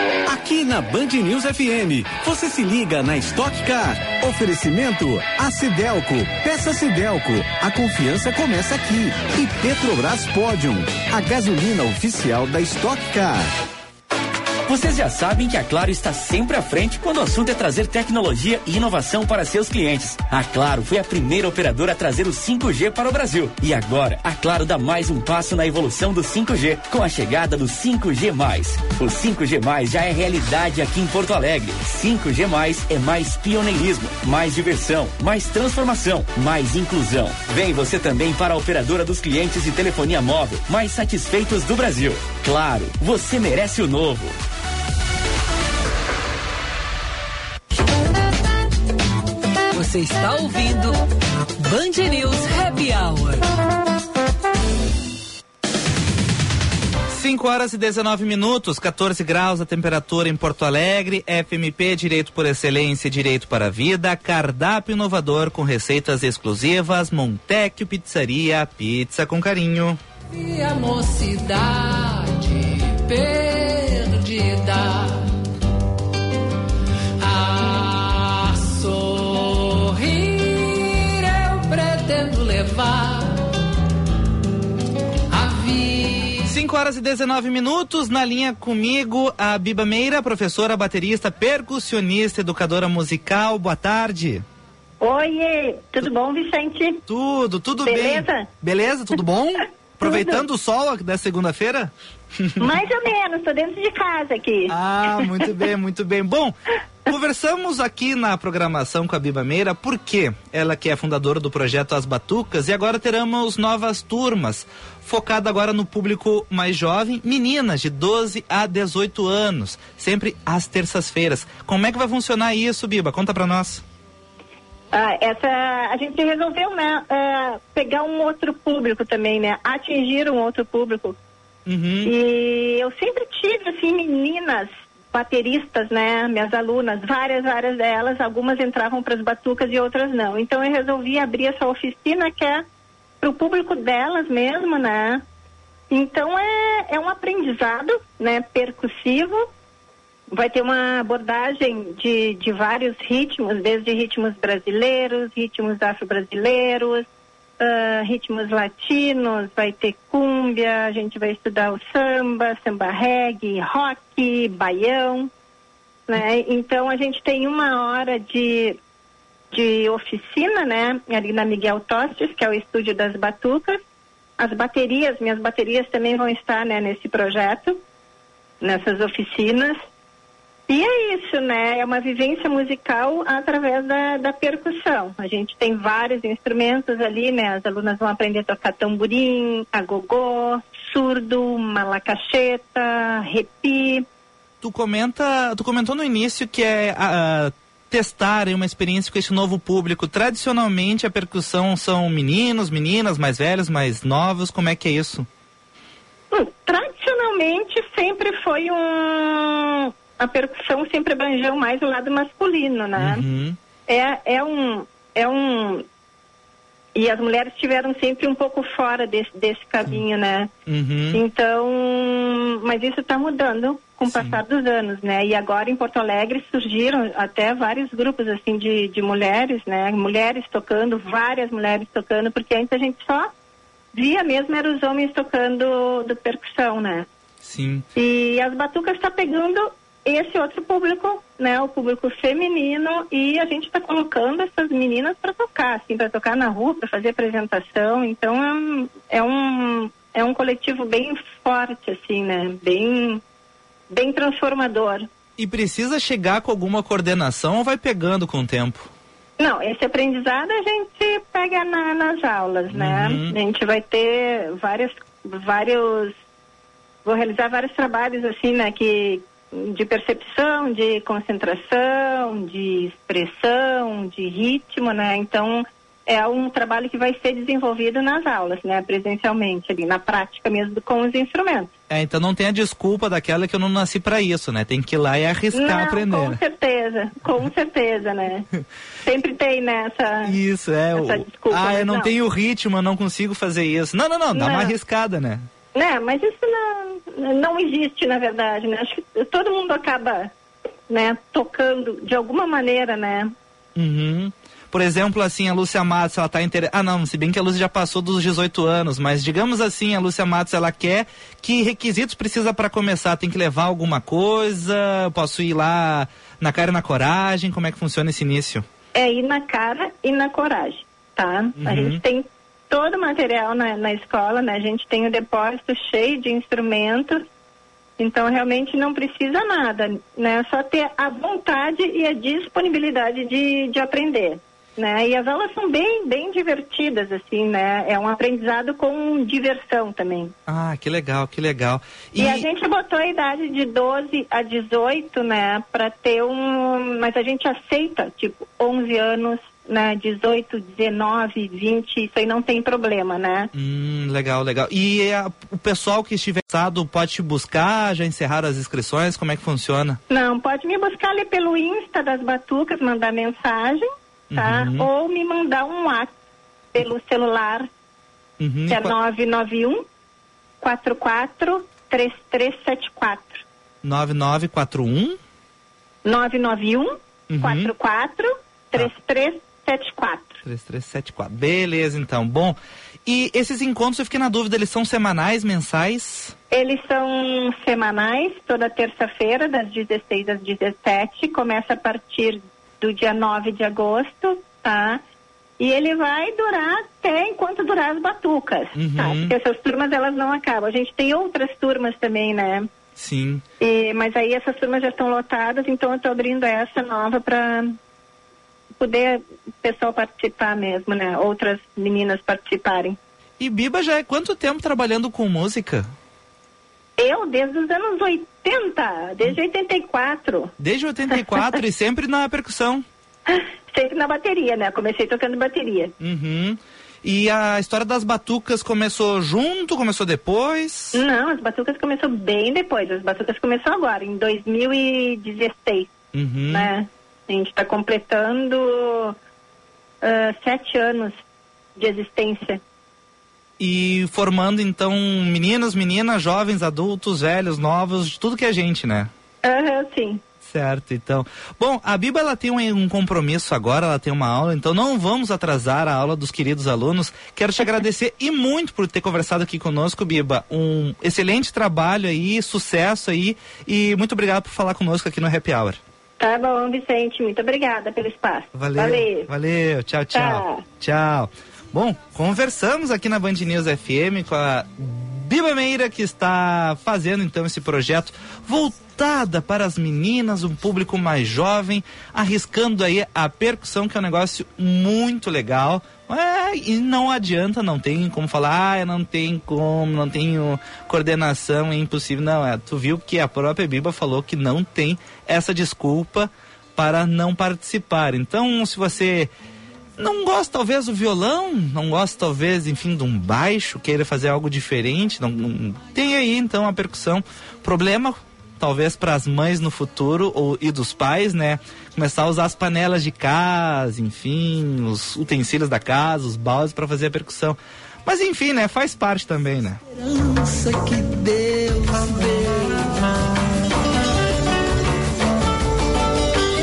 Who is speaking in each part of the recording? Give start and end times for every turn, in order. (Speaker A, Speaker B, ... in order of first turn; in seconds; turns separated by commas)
Speaker A: 3.2-3.6, Speaker A: 4.3-13.3, Speaker B: 14.7-44.4, Speaker C: 49.7-51.0, Speaker C: 51.6-53.4, Speaker D: 57.1-70.0, Speaker E: 70.3-75.3, Speaker E: 77.2-83.4, Speaker E: 85.3-86.5, Speaker D: 86.4-94.4, Speaker F: 95.0-97.0, Speaker D: 97.1-102.8, Speaker F: 97.8-98.5, Speaker F: 100.0-100.4, Speaker F: 102.6-105.4, Speaker D: 104.7-123.8, Speaker F: 124.9-131.2, Speaker D: 131.7-132.1, Speaker F: 132.0-142.6, Speaker F: 143.2-145.2, Speaker F: 145.9-149.4, Speaker F: 150.3-157.0, Speaker F: 157.6-165.3, Speaker F: 166.1-168.8, Speaker F: 169.5-173.8, Speaker F: 174.4-177.8, Speaker F: 178.6-179.8, Speaker F: 180.7-194.1, Speaker D: 194.6-205.3, Speaker F: 206.3-213.2, Speaker D: 212.9-213.6, Speaker F: 213.9-215.8, Speaker F: 216.9-220.5, Speaker D: 220.7-221.2, Speaker F: 221.1-233.3, Speaker D: 224.1-224.4, Speaker F: 233.9-237.1, Speaker D: 237.4-237.8, Speaker F: 237.9-253.2, Speaker F: 253.9-255.1, Speaker D: 255.4-258.9, Speaker F: 259.4-266.1, Speaker D: 262.7-263.4, Speaker F: 267.0-281.7, Speaker D: 281.9-286.4, Speaker F: 285.5-288.5, Speaker F: 289.0-290.3, Speaker D: 290.2-295.5, Speaker F: 290.9-292.1, Speaker F: 294.3-294.7, Speaker F: 295.7-300.3, Speaker F: 300.9-303.3, Speaker D: 303.7-318.6, Speaker F: 318.9-327.2, Speaker D: 321.6-322.0, Speaker F: 328.0-340.3, Speaker D: 340.5-342.4, Speaker F: 342.2-353.5, Speaker D: 353.5-360.0, Speaker F: 360.1-366.1, Speaker D: 364.3-364.9, Speaker F: 366.7-367.7, Speaker D: 368.4-368.9, Speaker F: 368.7-369.8, Speaker F: 370.6-373.4, Speaker D: 373.8-375.2, Speaker F: 376.0-380.4, Speaker D: 377.3-377.7, Speaker D: 380.4-386.3, Speaker F: 386.5-395.0, Speaker F: 395.6-402.7, Speaker D: 398.7-399.3, Speaker D: 402.9-403.4, Speaker F: 403.6-407.8, Speaker F: 408.8-413.0, Speaker D: 413.4-415.9, Speaker F: 417.0-420.5, Speaker D: 420.6-422.8, Speaker F: 421.1-421.5, Speaker F: 423.3-425.9, Speaker D: 426.0-431.0, Speaker F: 430.9-435.9, Speaker D: 436.1-436.7, Speaker F: 436.5-439.1, Speaker F: 440.0-441.2, Speaker F: 441.8-442.6, Speaker D: 443.6-449.1, Speaker F: 449.4-450.2, Speaker D: 450.4-465.8, Speaker F: 466.2-469.3, Speaker D: 468.5-499.3, Speaker F: 470.1-470.6, Speaker D: 500.0-519.8, Speaker A: 520.2-522.9